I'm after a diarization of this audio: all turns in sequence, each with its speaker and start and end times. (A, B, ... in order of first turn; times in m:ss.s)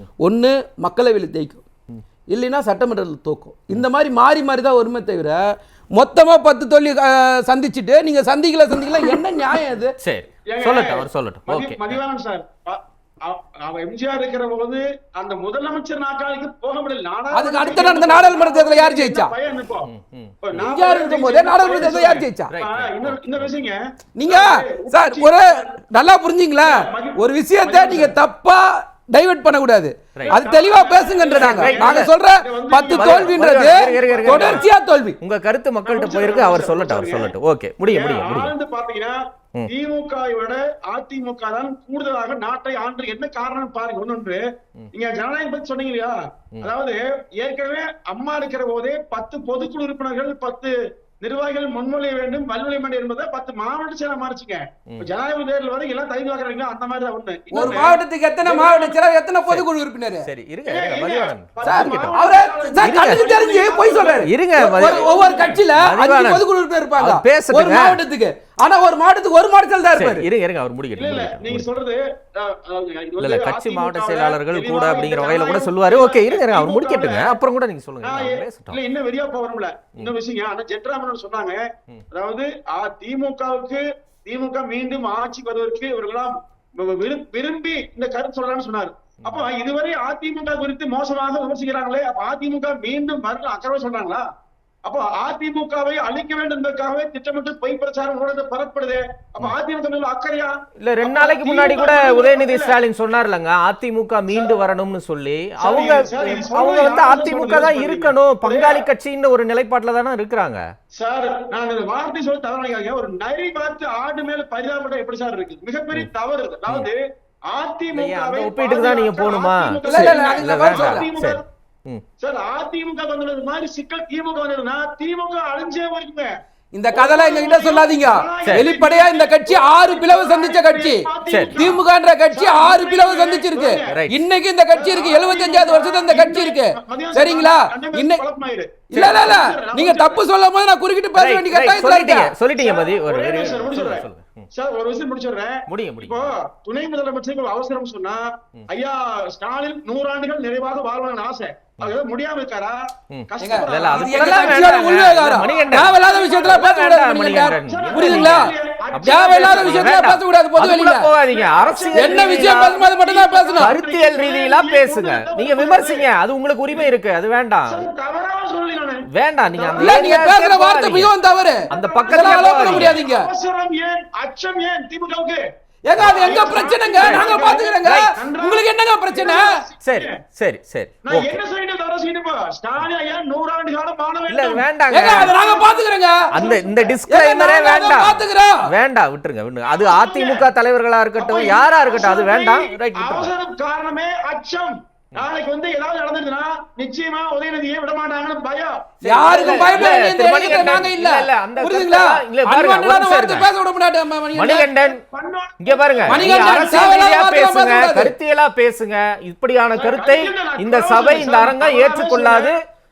0:00.2-0:01.6 A
0:02.3-0:09.9 A
0:10.0-0:12.0 B
0:10.5-0:19.9 C
0:17.3-0:19.3 A
0:19.9-0:20.7 B
0:20.4-0:25.7 C
0:20.6-0:22.5 A
0:22.5-0:23.5 B
0:24.2-0:35.2 A
0:26.6-0:28.2 C
0:30.3-0:34.7 C
0:31.3-0:32.1 B
0:32.9-0:34.7 B
0:35.2-0:38.5 B
0:35.8-0:37.3 C
0:37.9-0:59.0 C
0:57.5-1:00.3 A
1:00.3-1:02.2 B
1:00.7-1:04.3 C
1:01.6-1:10.2 A
1:02.8-1:03.3 B
1:04.2-1:05.1 B
1:04.9-1:05.6 C
1:05.8-1:06.4 B
1:07.0-1:08.0 B
1:10.0-1:11.7 B
1:11.0-1:17.3 C
1:13.2-1:18.8 B
1:18.0-1:34.2 C
1:34.8-1:42.8 C
1:40.8-1:50.6 B
1:44.3-1:44.6 C
1:45.6-1:48.9 C
1:51.0-1:57.0 C
1:57.5-2:01.4 C
1:57.9-2:02.0 B
1:59.8-2:01.1 A
2:02.2-2:06.3 C
2:06.7-2:18.2 A
2:06.9-2:14.0 C
2:11.3-2:11.7 B
2:13.9-2:14.2 B
2:14.7-2:20.2 C
2:18.9-2:22.3 A
2:19.0-2:19.2 B
2:21.2-2:24.5 B
2:22.6-2:36.7 C
2:25.7-2:26.3 B
2:33.1-2:42.8 B
2:33.4-2:41.1 A
2:37.6-2:40.1 C
2:41.3-2:46.1 C
2:41.9-2:43.8 A
2:43.6-2:47.8 B
2:47.7-2:50.2 C
2:49.1-2:51.1 B
2:49.8-2:53.3 A
2:51.7-2:55.4 C
2:51.7-2:53.0 B
2:55.9-2:59.5 A
2:56.0-3:00.2 C
2:57.0-2:57.3 B
2:57.8-2:58.1 B
2:59.8-3:01.4 B
3:01.0-3:05.7 C
3:04.3-3:05.4 B
3:04.9-3:06.2 A
3:06.3-3:13.3 B
3:06.3-3:07.0 C
3:07.1-3:08.6 A
3:09.7-3:10.5 C
3:11.2-3:20.9 C
3:19.0-3:23.5 B
3:19.0-3:24.7 A
3:24.3-3:25.0 B
3:24.7-3:26.8 C
3:25.6-3:32.6 B
3:26.1-3:28.2 A
3:29.8-3:32.5 C